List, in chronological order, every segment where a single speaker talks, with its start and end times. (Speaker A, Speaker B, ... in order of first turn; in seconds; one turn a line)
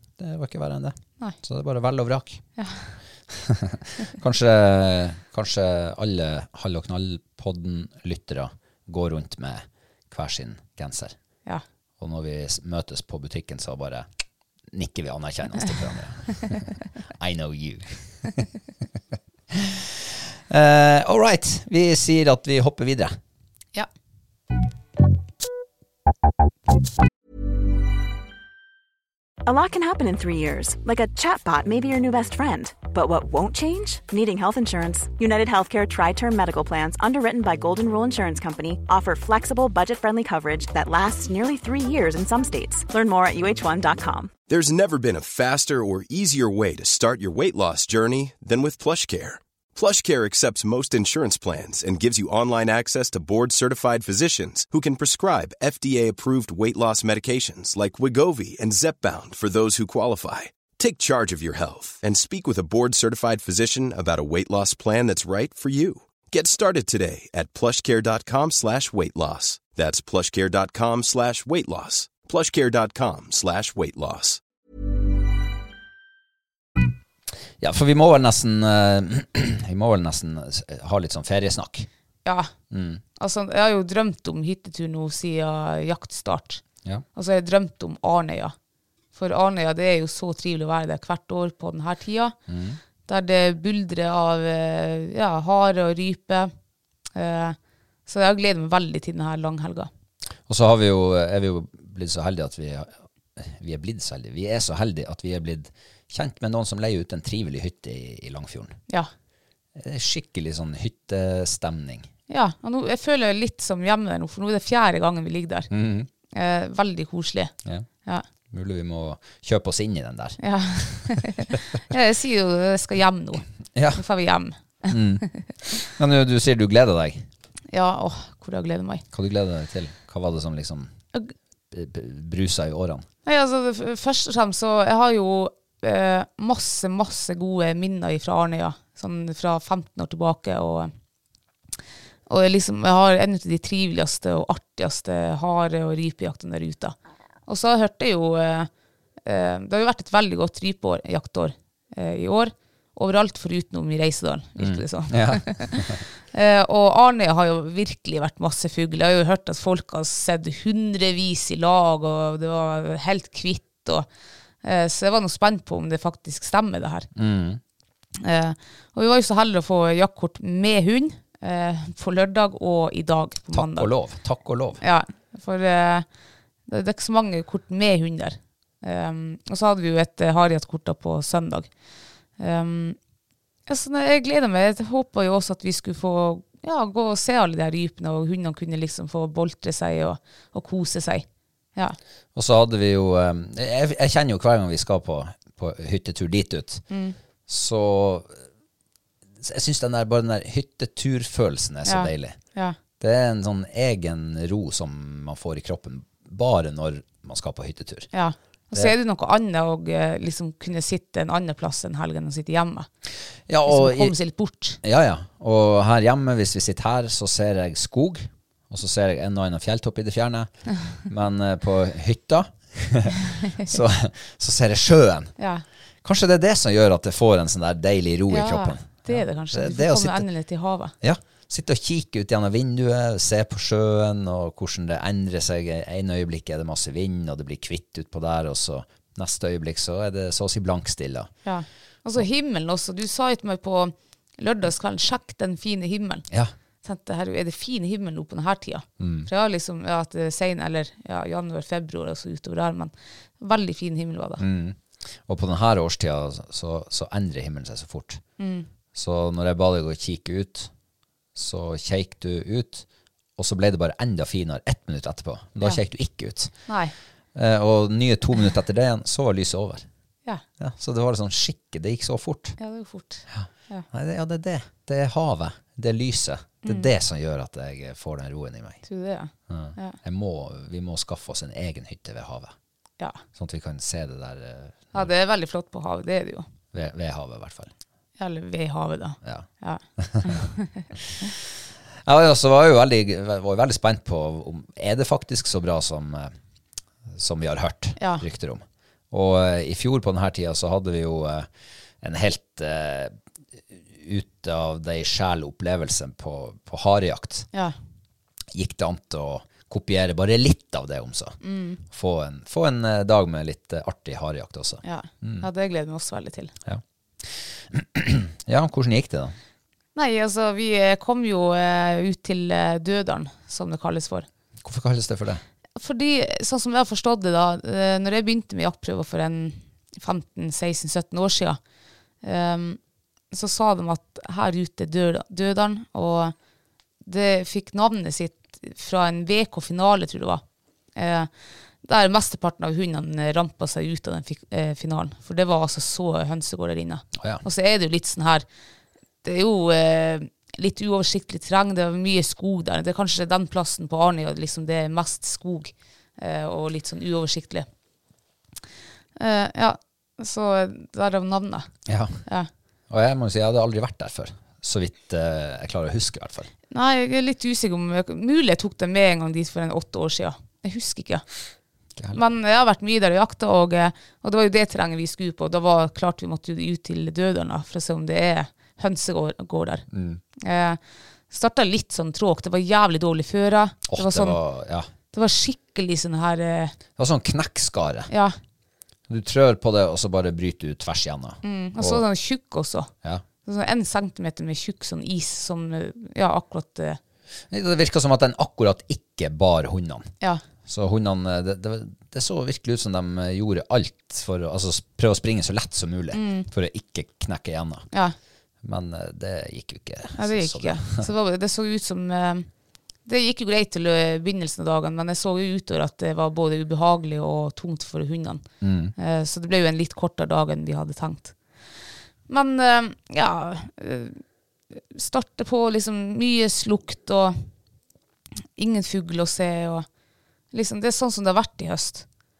Speaker A: 0.2-2.4
Speaker B: 2.6-2.9
Speaker A: 3.3-11.2
Speaker A: 12.0-14.1
Speaker A: 14.7-18.4
Speaker A: 19.5-23.2
Speaker C: 29.5-44.3
Speaker D: 44.5-74.4
Speaker A: 77.6-81.9
Speaker B: 82.2-82.5
Speaker A: 82.7-83.0
Speaker B: 83.2-86.6
Speaker B: 87.2-88.5
Speaker B: 89.2-92.3
Speaker A: 92.5-92.8
Speaker B: 93.1-96.5
Speaker B: 97.2-99.9
Speaker A: 100.5-108.8
Speaker A: 109.8-112.1
Speaker B: 112.3-115.7
Speaker A: 115.7-116.1
Speaker B: 116.3-117.5
Speaker A: 118.5-121.2
Speaker B: 120.4-125.0
Speaker A: 123.8-124.0
Speaker A: 124.9-125.3
Speaker A: 125.8-127.3
Speaker B: 127.7-129.0
Speaker A: 129.1-130.9
Speaker A: 131.7-133.1
Speaker B: 133.2-140.9
Speaker B: 142.3-147.0
Speaker B: 147.5-148.7
Speaker B: 149.3-164.1
Speaker A: 154.6-156.0
Speaker B: 164.6-167.1
Speaker A: 167.2-167.6
Speaker B: 168.2-173.9
Speaker A: 173.5-174.8
Speaker B: 174.8-176.1
Speaker B: 176.7-181.7
Speaker B: 182.4-183.0
Speaker B: 183.7-192.0
Speaker A: 192.3-196.8
Speaker B: 196.9-197.2
Speaker A: 197.5-198.3
Speaker A: 199.4-202.4
Speaker B: 201.8-202.8
Speaker A: 203.0-208.1
Speaker B: 208.1-212.9
Speaker A: 213.5-214.2
Speaker B: 213.7-214.8
Speaker A: 214.8-225.3
Speaker B: 225.4-225.6
Speaker A: 226.0-230.3
Speaker B: 228.3-230.9
Speaker A: 231.0-241.3
Speaker B: 241.4-246.3
Speaker B: 246.8-254.4
Speaker A: 249.0-249.3
Speaker A: 254.4-258.2
Speaker B: 258.4-258.7
Speaker A: 258.9-260.7
Speaker A: 261.4-262.9
Speaker A: 263.4-266.5
Speaker B: 266.7-266.9
Speaker A: 267.4-269.9
Speaker A: 270.6-272.6
Speaker B: 272.6-273.9
Speaker A: 273.3-278.8
Speaker B: 276.6-276.9
Speaker B: 278.9-280.0
Speaker A: 279.5-282.5
Speaker A: 283.4-285.1
Speaker B: 284.9-286.5
Speaker A: 286.7-287.7
Speaker B: 288.2-290.9
Speaker A: 290.0-290.4
Speaker A: 292.1-296.3
Speaker A: 297.1-301.5
Speaker B: 298.0-298.2
Speaker A: 302.0-303.2
Speaker A: 303.7-307.5
Speaker A: 308.5-315.5
Speaker B: 311.4-311.8
Speaker B: 314.8-316.5
Speaker A: 316.6-319.3
Speaker B: 319.9-324.3
Speaker A: 324.6-325.4
Speaker B: 325.8-331.6
Speaker B: 332.2-332.8
Speaker B: 333.3-336.4
Speaker B: 337.1-340.4
Speaker B: 341.0-341.3
Speaker B: 341.8-348.4
Speaker A: 347.1-347.4
Speaker B: 349.2-357.7
Speaker B: 359.2-361.7
Speaker A: 361.9-362.2
Speaker A: 362.9-366.5
Speaker B: 366.7-371.2
Speaker B: 372.1-379.9
Speaker A: 379.9-380.2
Speaker B: 380.4-380.8
Speaker B: 381.3-384.4
Speaker A: 383.9-384.9
Speaker B: 385.1-386.8
Speaker A: 387.0-388.1
Speaker B: 388.1-388.4
Speaker A: 389.1-392.1
Speaker B: 391.4-392.9
Speaker B: 393.4-397.0
Speaker A: 397.5-400.1
Speaker A: 400.7-407.9
Speaker B: 406.1-406.5
Speaker A: 408.6-411.1
Speaker B: 410.2-412.5
Speaker B: 413.1-418.4
Speaker A: 418.6-418.9
Speaker B: 419.0-421.4
Speaker B: 422.3-424.2
Speaker B: 424.7-427.5
Speaker B: 428.6-429.9
Speaker B: 430.5-432.1